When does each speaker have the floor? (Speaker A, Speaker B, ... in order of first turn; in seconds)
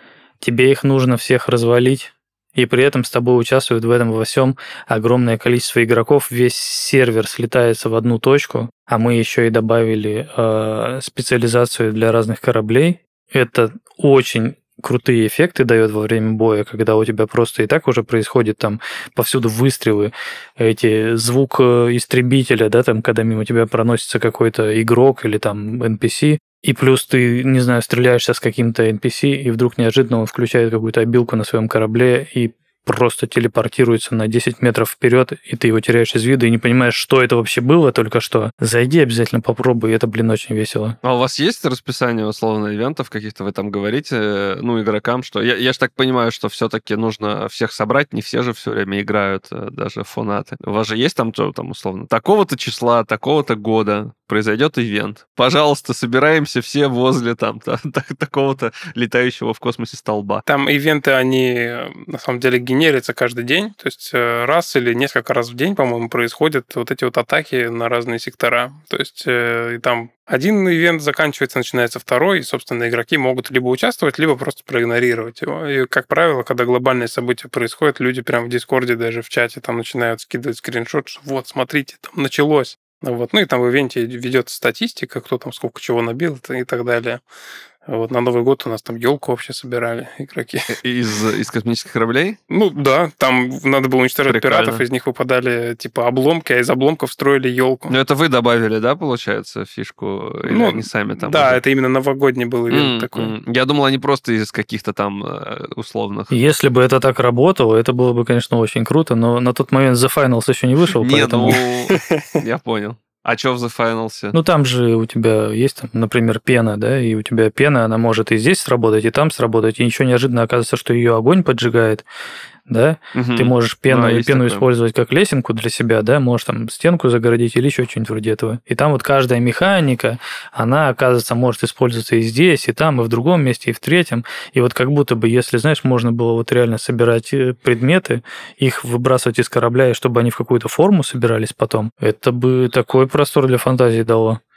Speaker A: 0.4-41.0, 106.3-111.6, 114.3-122.0, 122.7-144.4
Speaker B: 41.0-60.4, 90.7-92.4, 94.2-94.8, 97.9-101.6, 102.7-106.4, 111.0-114.3, 123.1-124.7
Speaker C: 60.5-87.2, 87.8-90.7, 92.5-97.9, 100.5-103.3, 111.5-112.4